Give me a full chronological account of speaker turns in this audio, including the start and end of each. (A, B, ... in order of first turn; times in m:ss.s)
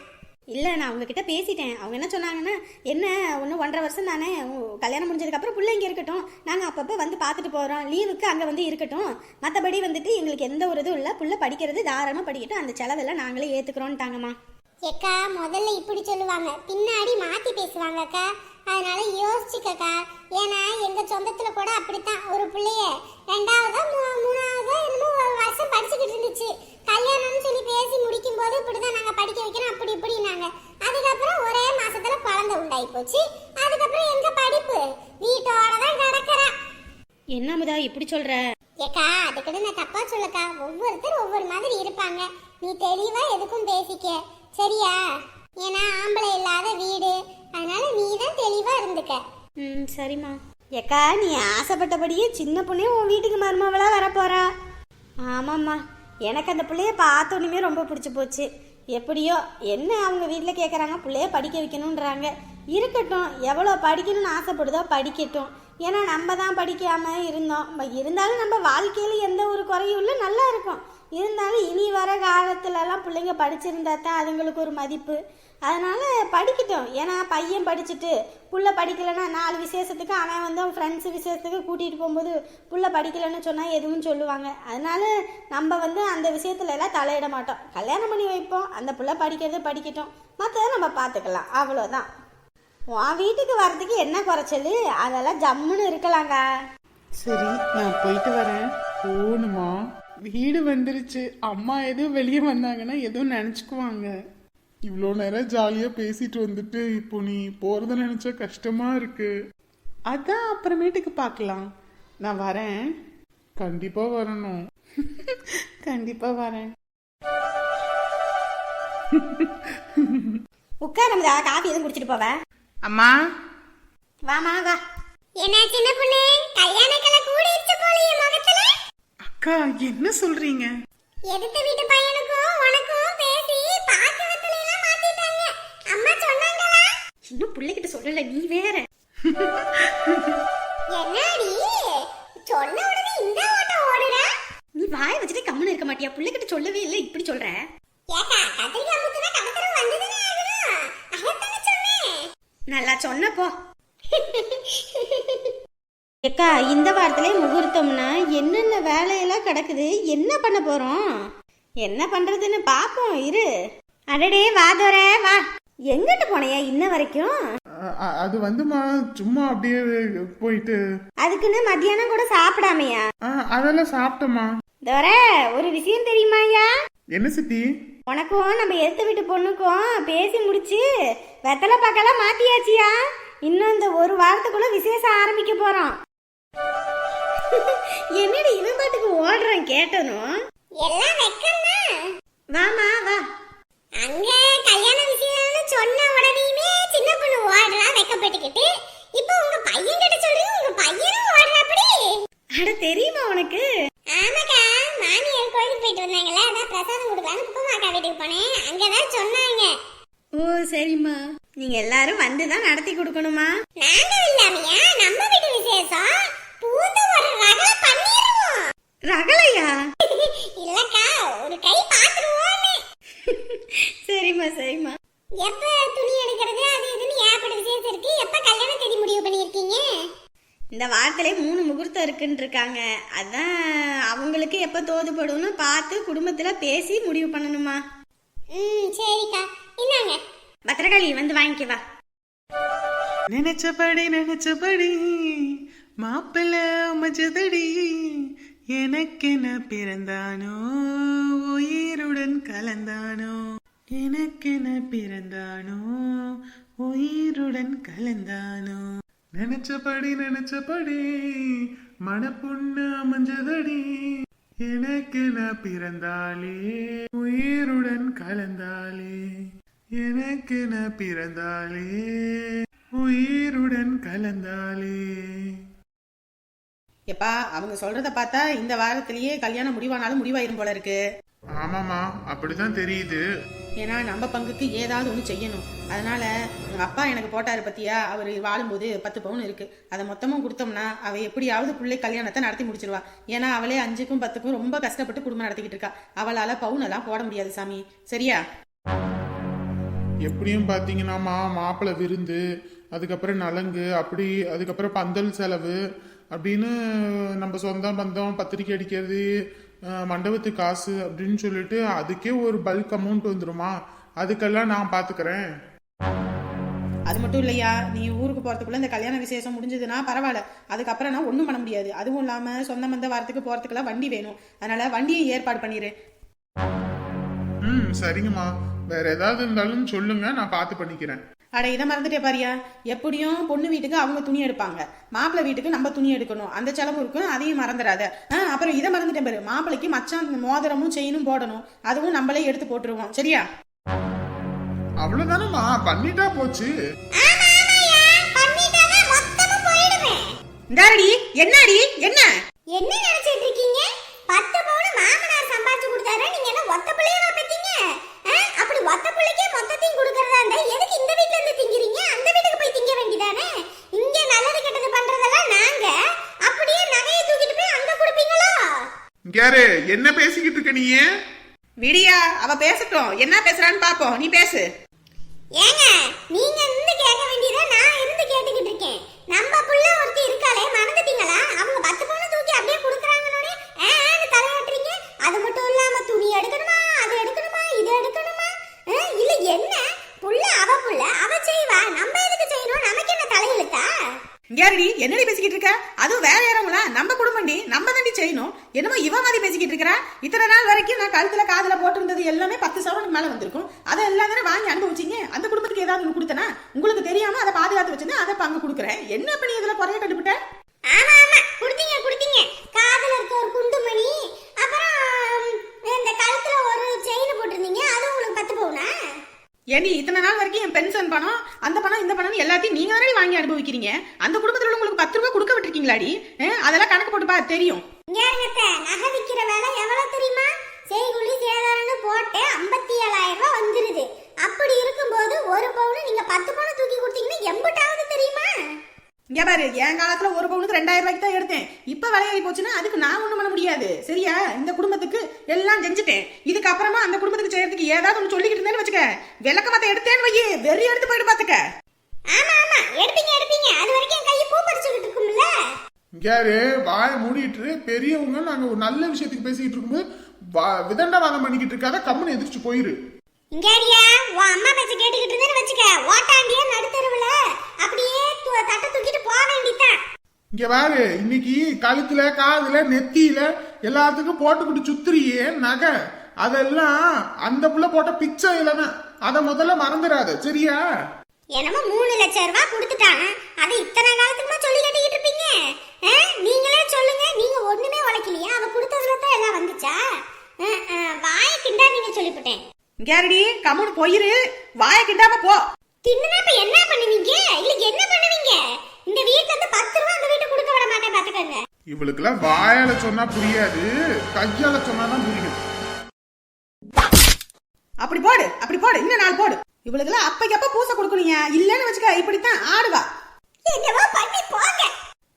0:00.5-0:14.3 A
0:14.8-0:36.5 B
0:37.3-0:38.4 A
0:38.8-0:45.0 B
0:45.6-0:49.2 B
0:49.6-0:54.4 A
0:55.3-1:32.1 A
1:32.9-1:36.4 A
1:37.2-1:38.7 C
1:39.0-1:39.7 D
1:40.3-1:44.1 C
1:44.9-1:49.3 D
1:50.1-1:51.7 C
1:52.2-1:52.8 C
1:53.6-1:54.6 D
1:55.1-1:56.7 C
1:59.1-2:00.4 D
2:00.8-2:02.3 A
2:02.8-2:03.1 C
2:04.3-2:04.8 A
2:05.4-2:08.7 B
2:09.4-2:10.7 C
2:11.3-2:16.9 B
2:17.3-2:18.8 A
2:20.9-2:24.3 B
2:24.8-2:27.6 A
2:28.1-2:32.1 B
2:32.7-2:33.5 A
2:34.1-2:35.5 B
2:36.3-2:41.0 A
2:41.8-2:43.4 A
2:44.1-2:47.3 A
2:48.0-2:50.8 D
2:51.2-2:53.0 A
2:53.3-2:54.5 D
2:54.8-2:56.7 A
2:57.1-2:57.6 D
2:58.1-3:00.8 A
3:01.5-3:02.9 A
3:03.5-3:05.9 A
3:07.5-3:10.3 A
3:10.8-3:11.8 B
3:12.6-3:13.2 A
3:14.0-3:22.1 B
3:22.6-3:23.6 A
3:24.1-3:29.7 B
3:30.4-3:33.5 A
3:33.8-3:38.6 B
3:39.1-3:39.7 A
3:40.0-3:42.8 B
3:43.3-3:44.9 A
3:45.4-3:49.9 B
3:50.7-3:53.5 A
3:54.1-3:57.8 A
3:58.5-4:00.2 B
4:00.7-4:01.8 A
4:03.3-4:05.0 C
4:06.0-4:07.7 C
4:08.7-4:10.6 C
4:11.1-4:13.3 C
4:14.0-4:15.7 D
4:14.0-4:15.8 C
4:16.9-4:18.7 C
4:17.5-4:18.7 D
4:19.4-4:21.0 D
4:22.1-4:23.9 D
4:24.7-4:26.6 D
4:27.2-4:29.2 D
4:30.0-4:32.0 D
4:33.0-4:35.0 D
4:37.1-4:41.0 E
4:41.6-4:43.2 D
4:43.8-4:58.4 E
5:00.3-5:02.4 D
5:02.9-5:05.8 D
5:06.3-5:06.7 D
5:07.4-5:09.2 D
5:10.0-5:15.4 D
5:17.1-5:25.9 E
5:27.6-5:31.2 D
5:31.6-5:43.4 E
5:45.0-5:46.7 D
5:47.2-5:50.2 B
5:50.7-5:52.3 E
5:52.8-6:05.9 B
6:06.4-6:08.8 B
6:09.3-6:11.0 D
6:11.8-6:14.6 E
6:15.6-6:33.9 B
6:34.5-6:50.4 E
6:50.9-6:58.9 B
6:59.7-7:07.8 E
7:08.1-7:18.5 B
7:19.3-7:31.6 E
7:32.3-7:35.5 B
7:36.2-7:40.0 D
7:40.6-7:42.9 D
7:43.5-7:50.0 B
7:50.5-8:00.8 D
8:01.5-8:10.0 B
8:10.6-8:12.6 B
8:13.0-8:15.6 E
8:16.0-8:21.6 B
8:21.9-8:25.6 D
8:28.0-8:33.0 E
8:33.6-8:34.9 B